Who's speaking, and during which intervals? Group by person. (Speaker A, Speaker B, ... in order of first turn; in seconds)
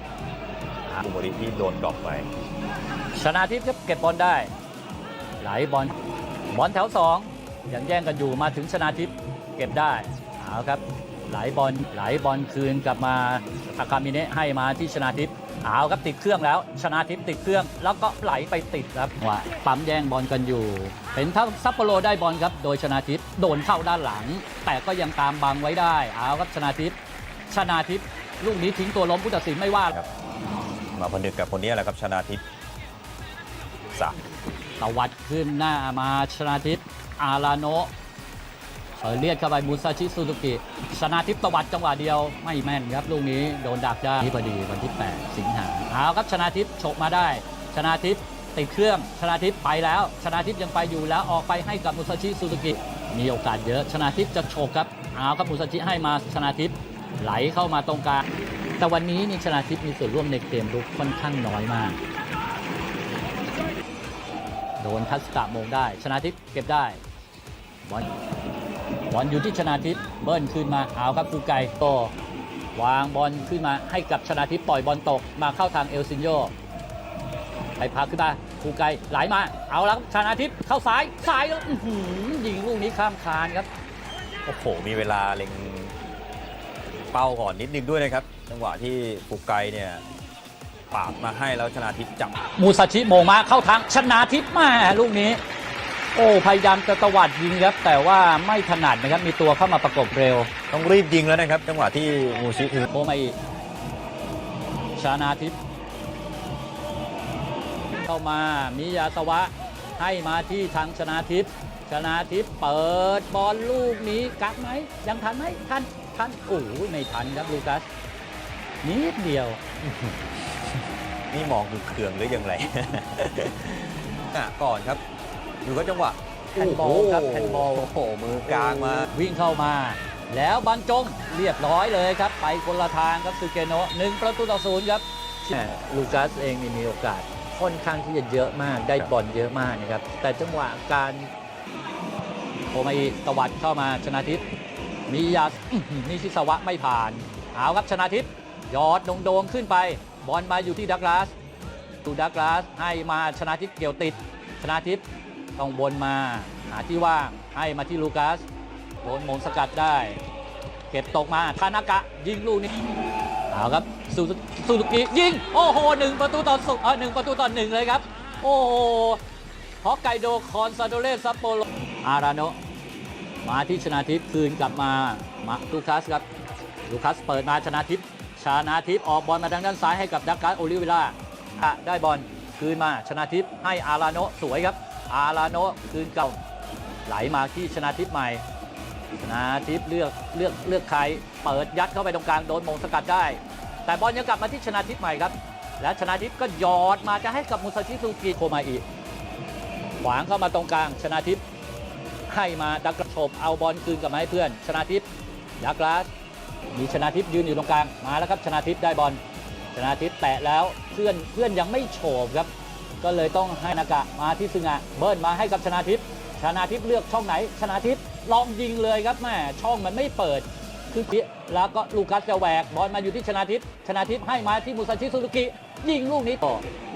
Speaker A: 0.9-2.3, 30.9-32.4, 84.5-86.0, 86.9-90.0, 90.9-92.4, 100.7-102.9, 119.8-120.3, 121.3-125.0, 125.6-129.1
Speaker B: 3.1-4.5, 5.4-5.9, 6.5-27.0, 27.5-29.9, 34.8-37.9, 39.0-58.2, 58.8-62.0, 64.8-67.0, 69.1-72.1, 72.7-76.5, 77.8-83.7, 92.6-95.4, 96.1-100.5, 102.9-103.3, 105.0-105.6, 108.0-117.8, 118.8-119.6, 126.5-127.9, 128.5-141.3, 142.7-144.4, 145.1-151.3, 152.0-155.0, 155.6-158.4, 159.0-160.2, 160.9-162.7, 163.5-169.2, 169.8-172.6, 173.4-176.2, 176.8-186.4, 187.1-188.4, 189.2-198.8, 200.0-201.4, 202.3-205.1, 205.6-206.1, 206.7-209.2, 209.7-212.5, 213.0-226.6